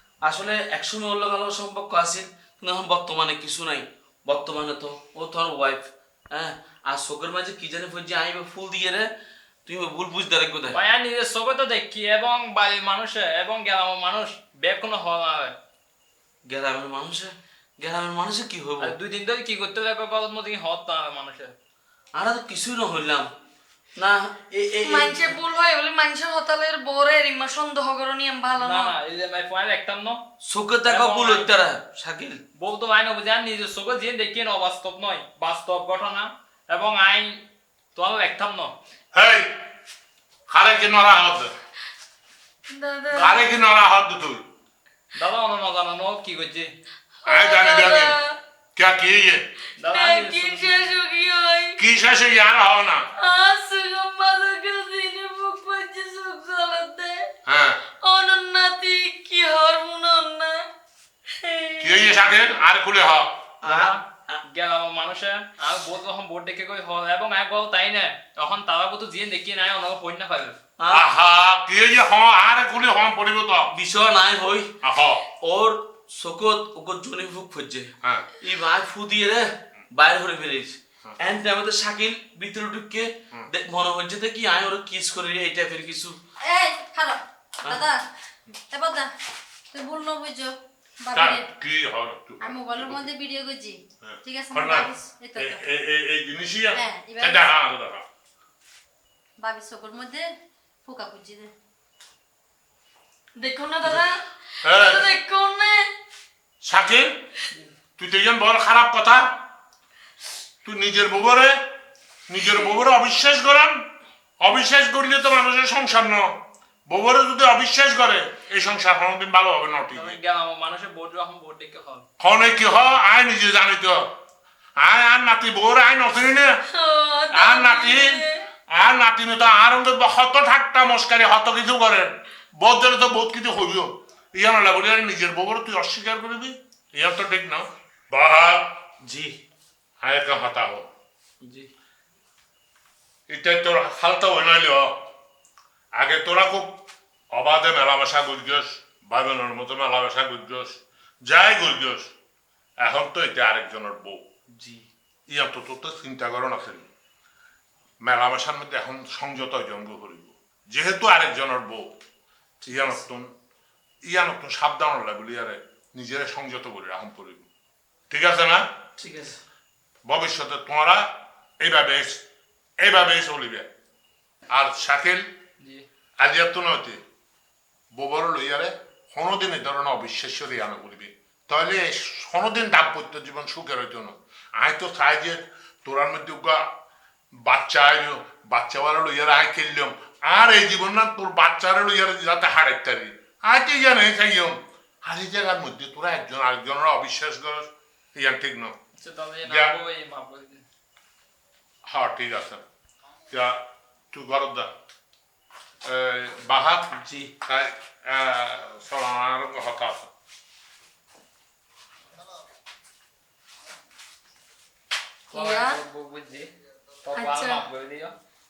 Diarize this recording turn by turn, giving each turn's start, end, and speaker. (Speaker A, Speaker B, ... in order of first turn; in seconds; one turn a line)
Speaker A: 0.2-9.1
Speaker A: 9.7-10.8
Speaker B: 10.7-15.5
Speaker A: 16.5-19.0
Speaker B: 18.8-21.6
Speaker A: 22.1-23.3
Speaker A: 24.0-25.3
Speaker C: 24.8-28.9
Speaker B: 28.6-30.2
Speaker A: 30.4-32.4
Speaker B: 30.9-31.5
Speaker B: 32.6-37.4
Speaker B: 38.0-38.7
Speaker D: 39.1-39.5
Speaker D: 40.5-41.5
Speaker C: 42.7-43.5
Speaker D: 43.1-44.4
Speaker B: 45.2-46.7
Speaker C: 47.2-48.3
Speaker D: 47.2-48.1
Speaker D: 48.8-49.4
Speaker B: 49.8-50.9
Speaker C: 49.9-51.8
Speaker D: 51.8-53.0
Speaker C: 53.2-57.2
Speaker D: 57.5-57.8
Speaker C: 58.0-60.6
Speaker C: 61.4-62.5
Speaker D: 61.8-63.5
Speaker A: 63.6-64.4
Speaker B: 63.6-70.6
Speaker A: 70.8-71.0
Speaker D: 70.9-73.7
Speaker A: 73.7-74.8
Speaker D: 74.8-75.3
Speaker A: 75.3-86.2
Speaker D: 78.0-78.3
Speaker E: 86.4-88.0
Speaker E: 88.7-89.1
Speaker E: 89.7-91.5
Speaker D: 91.1-93.1
Speaker E: 92.4-95.6
Speaker D: 94.0-98.0
Speaker E: 96.7-97.5
Speaker E: 99.4-100.3
Speaker E: 100.8-101.5
Speaker C: 103.4-105.9
Speaker D: 104.6-105.1
Speaker D: 106.6-107.1
Speaker D: 108.0-109.2
Speaker D: 110.6-111.6
Speaker D: 112.3-113.8
Speaker D: 114.4-116.3
Speaker D: 116.9-120.2
Speaker B: 119.9-122.0
Speaker D: 122.2-124.1
Speaker D: 124.8-126.5
Speaker C: 126.7-128.4
Speaker D: 127.3-138.8
Speaker A: 139.0-139.4
Speaker D: 140.0-140.9
Speaker A: 141.4-141.7
Speaker D: 143.3-145.0
Speaker D: 146.0-152.1
Speaker D: 152.8-154.2
Speaker A: 154.6-154.8
Speaker D: 155.3-156.9
Speaker D: 158.0-161.9
Speaker A: 162.6-163.0
Speaker D: 162.7-163.3
Speaker D: 164.1-167.5
Speaker D: 168.1-168.6
Speaker A: 169.0-169.4
Speaker D: 170.1-171.1
Speaker D: 171.6-172.2
Speaker D: 172.8-173.7
Speaker D: 174.5-175.2
Speaker D: 176.2-177.0
Speaker D: 177.9-186.6
Speaker D: 187.4-198.8
Speaker B: 199.0-200.6
Speaker D: 199.4-199.7
Speaker D: 201.8-202.6
Speaker D: 203.3-203.6
Speaker D: 204.1-204.7
Speaker D: 205.8-210.1
Speaker A: 206.9-207.3
Speaker B: 215.3-216.5
Speaker C: 215.3-215.8
Speaker B: 217.0-218.1
Speaker C: 217.1-217.7